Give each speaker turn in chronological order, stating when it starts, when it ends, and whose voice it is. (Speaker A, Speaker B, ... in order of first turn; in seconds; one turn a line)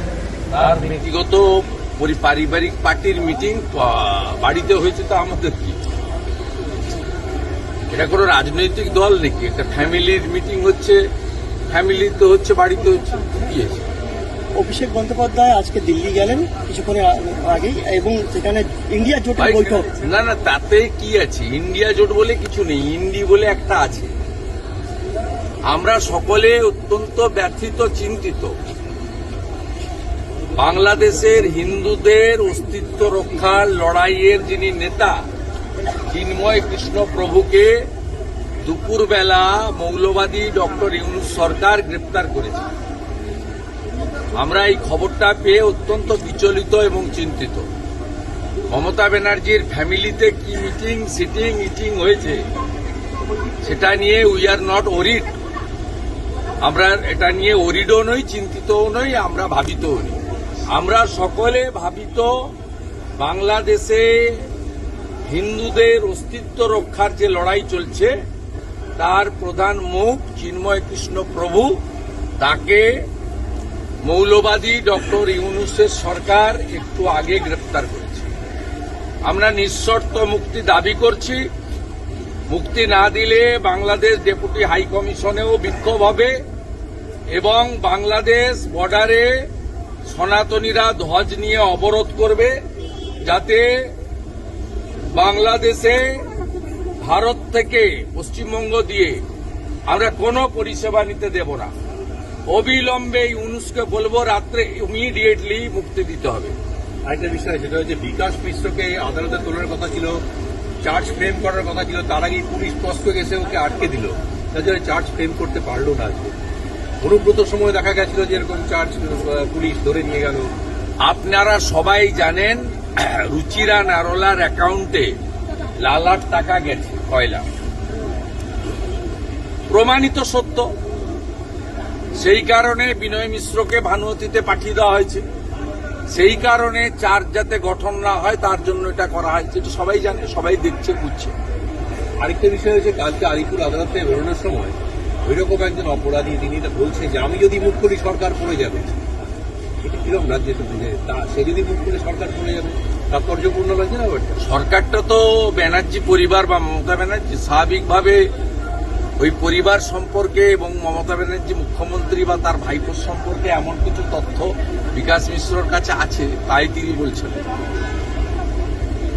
Speaker A: 0.5-5.8
Speaker A: 7.9-11.0
Speaker A: 11.7-13.8
Speaker B: 14.6-19.9
Speaker A: 19.4-24.1
Speaker A: 25.7-28.5
Speaker A: 30.6-35.2
Speaker A: 36.1-37.8
Speaker A: 38.6-42.6
Speaker A: 44.3-47.7
Speaker A: 48.7-52.4
Speaker A: 53.6-55.3
Speaker A: 56.6-62.5
Speaker A: 63.2-64.5
Speaker A: 65.3-68.1
Speaker A: 69.0-71.8
Speaker A: 72.4-72.9
Speaker A: 74.0-78.3
Speaker A: 79.2-81.4
Speaker A: 82.5-86.3
Speaker A: 87.3-89.3
Speaker A: 90.1-92.5
Speaker A: 93.2-93.9
Speaker A: 95.1-96.2
Speaker A: 97.0-99.2
Speaker A: 99.9-101.7
Speaker A: 102.5-106.5
Speaker C: 107.1-110.2
Speaker C: 110.8-116.3
Speaker C: 117.0-120.5
Speaker A: 121.0-125.1
Speaker A: 125.8-127.4
Speaker A: 129.7-130.7
Speaker A: 132.2-135.2
Speaker A: 136.1-141.3
Speaker C: 142.2-149.0
Speaker C: 149.8-154.4
Speaker A: 154.4-158.3
Speaker A: 159.2-167.4